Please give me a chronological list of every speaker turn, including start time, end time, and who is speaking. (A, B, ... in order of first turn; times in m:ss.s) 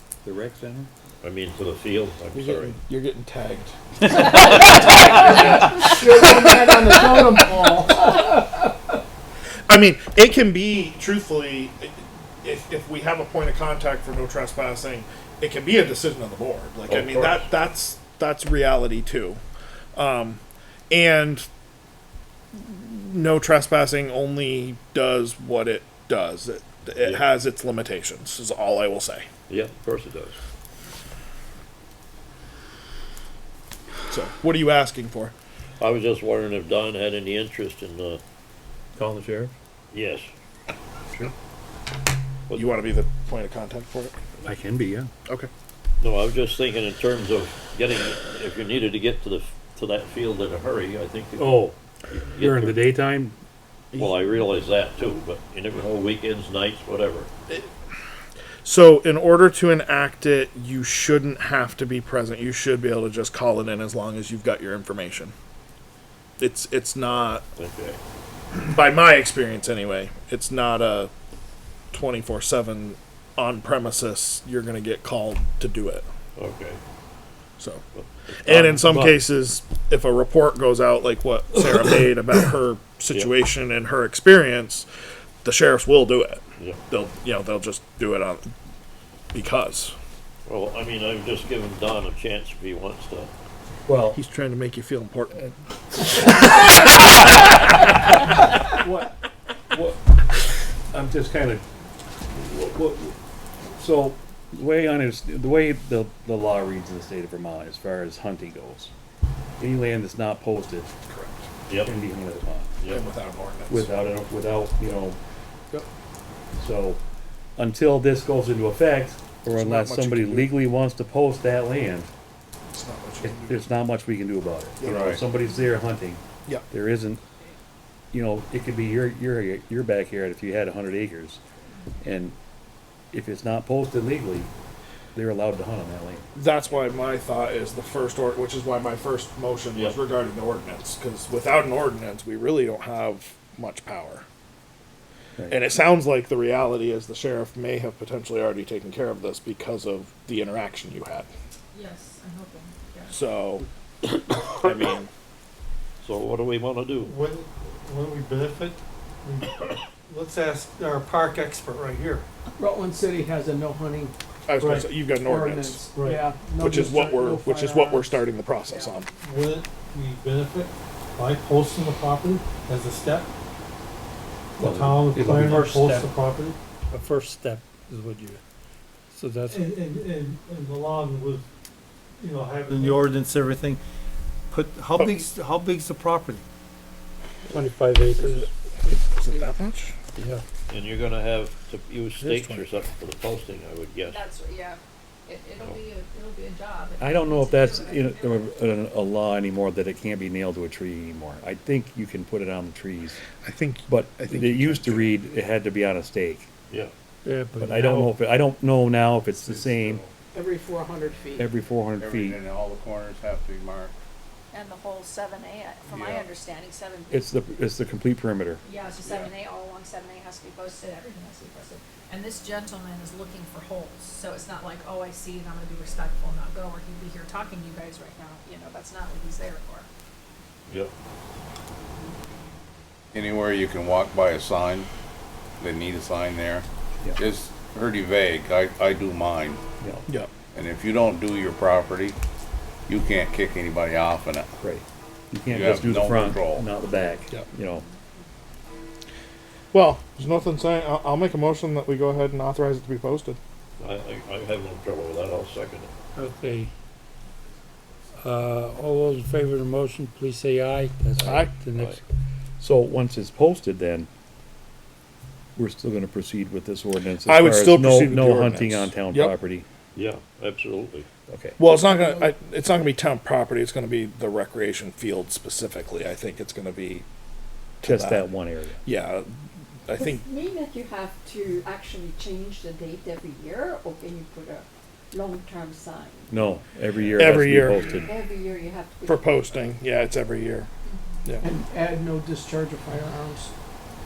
0:00.2-0:00.9 A
0:01.2-0:02.8 B
0:02.3-0:06.7 C
0:05.1-0:08.7 D
0:09.7-0:19.4 C
0:16.9-0:17.5 B
0:19.9-0:21.5 C
0:22.5-0:29.3 C
0:29.5-0:30.4 B
0:34.1-0:35.3 C
0:35.8-0:38.2 B
0:39.0-0:39.5 A
0:39.9-0:40.3 B
0:42.5-0:44.2 C
0:44.4-0:45.1 A
0:46.0-0:51.6 B
0:51.4-0:51.8 A
0:52.1-0:52.8 B
0:52.4-0:53.4 A
0:53.9-0:54.2 C
0:54.0-0:57.3 B
0:58.6-1:05.3 C
1:06.4-1:07.4 C
1:07.6-1:08.0 B
1:08.5-1:11.1 C
1:11.9-1:16.0 C
1:16.4-1:16.8 B
1:18.4-1:24.9 C
1:18.4-1:19.2 A
1:25.4-1:28.5 C
1:29.3-1:29.9 C
1:30.4-1:33.3 B
1:33.9-1:34.2 A
1:34.1-1:35.4 C
1:38.7-1:39.1 A
1:39.7-1:40.0 A
1:40.9-1:41.6 A
1:42.3-1:43.2 A
1:43.8-1:48.9 A
1:49.6-1:50.9 A
1:51.1-1:51.5 C
1:51.7-1:51.9 B
1:51.8-1:52.8 A
1:52.8-1:53.1 B
1:52.9-1:53.9 C
1:53.7-1:55.2 A
1:56.6-1:57.0 A
1:57.6-2:02.1 A
1:59.5-2:00.6 C
2:02.7-2:03.6 C
2:03.2-2:07.2 A
2:04.8-2:05.1 C
2:04.8-2:05.2 E
2:08.1-2:11.4 A
2:12.0-2:12.4 A
2:13.1-2:14.5 A
2:15.1-2:16.2 A
2:16.3-2:24.2 C
2:25.5-2:31.3 C
2:31.7-2:33.1 F
2:33.1-2:33.6 C
2:34.6-2:35.1 C
2:34.6-2:35.0 B
2:36.0-2:37.1 B
2:37.0-2:42.2 G
2:42.6-2:44.1 D
2:44.5-2:45.9 C
2:44.6-2:44.9 G
2:45.0-2:48.3 D
2:46.0-2:46.2 G
2:46.5-2:49.1 C
2:49.2-2:53.3 G
2:54.6-2:56.6 G
2:54.6-2:56.1 A
2:55.2-2:55.9 H
2:56.9-2:58.4 H
2:59.1-2:59.7 H
2:59.5-3:01.4 G
3:02.2-3:03.0 G
3:02.7-3:03.8 I
3:04.5-3:06.4 I
3:07.5-3:08.5 H
3:08.9-3:09.4 D
3:09.0-3:09.9 C
3:10.2-3:10.4 H
3:10.7-3:14.2 B
3:12.2-3:12.6 C
3:14.0-3:18.5 F
3:17.0-3:23.2 A
3:23.4-3:25.1 C
3:23.9-3:26.5 A
3:27.2-3:28.1 H
3:27.6-3:30.0 A
3:29.5-3:29.9 E
3:30.3-3:31.4 D
3:31.4-3:32.4 A
3:32.0-3:33.9 E
3:34.5-3:37.2 F
3:37.1-3:38.6 A
3:38.6-3:49.9 F
3:53.1-3:54.9 E
3:55.6-3:59.6 E
3:59.8-4:00.1 A
4:00.5-4:02.2 E
4:02.9-4:04.6 E
4:04.6-4:07.8 A
4:05.5-4:06.7 E
4:09.7-4:13.4 C
4:13.8-4:15.9 B
4:16.2-4:16.7 H
4:18.2-4:22.0 H
4:21.2-4:21.5 C
4:21.2-4:22.0 B
4:22.6-4:24.1 A
4:25.6-4:29.6 A
4:27.2-4:29.3 C
4:29.9-4:31.1 B
4:31.3-4:31.6 A
4:31.6-4:37.0 C
4:37.8-4:38.3 C
4:37.8-4:38.8 A
4:38.8-4:40.2 C
4:39.9-4:46.2 J
4:46.3-4:48.1 A
4:47.1-4:48.1 C
4:47.9-4:49.7 J
4:49.0-4:50.7 C
4:51.4-4:53.5 D